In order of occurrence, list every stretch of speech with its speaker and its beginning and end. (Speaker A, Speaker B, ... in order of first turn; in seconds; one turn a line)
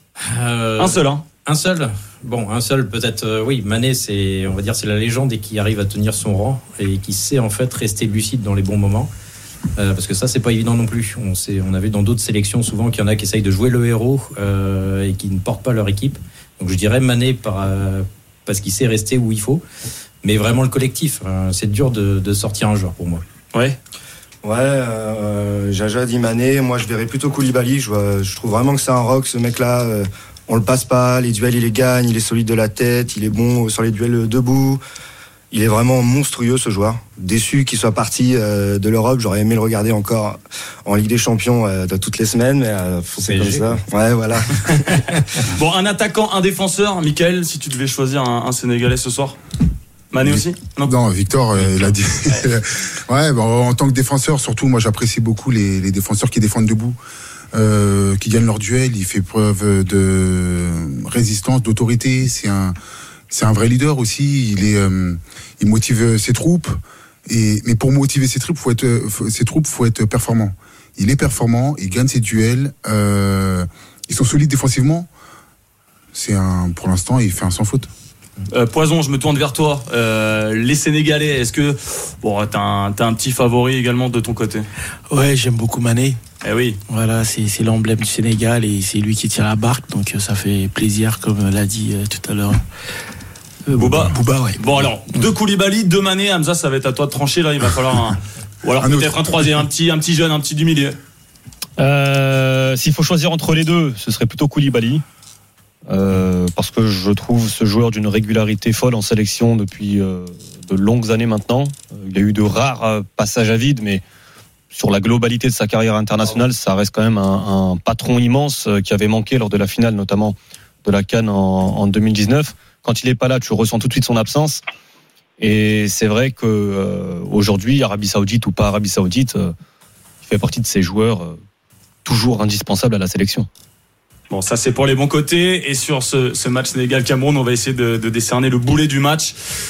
Speaker A: 0.3-0.9
Speaker B: 0.8-1.2
Speaker A: 1.5-9.1
Speaker A: 9.8-19.6
Speaker A: 20.2-23.2
Speaker C: 24.4-34.8
Speaker C: 35.5-45.1
Speaker A: 43.2-43.8
Speaker B: 45.5-49.4
Speaker B: 50.1-50.9
Speaker D: 50.2-57.0
Speaker B: 51.6-52.5
Speaker D: 57.5-62.8
Speaker D: 63.3-75.1
Speaker D: 76.1-77.9
Speaker B: 78.5-84.7
Speaker E: 85.1-86.2
Speaker B: 86.4-86.8
Speaker E: 86.9-92.6
Speaker E: 93.7-94.7
Speaker B: 93.8-101.0
Speaker D: 98.8-99.5
Speaker F: 101.8-105.0
Speaker F: 105.9-114.0
Speaker F: 114.7-124.6
Speaker F: 125.4-129.5
Speaker F: 130.3-131.4
Speaker F: 132.1-133.5
Speaker B: 134.3-139.3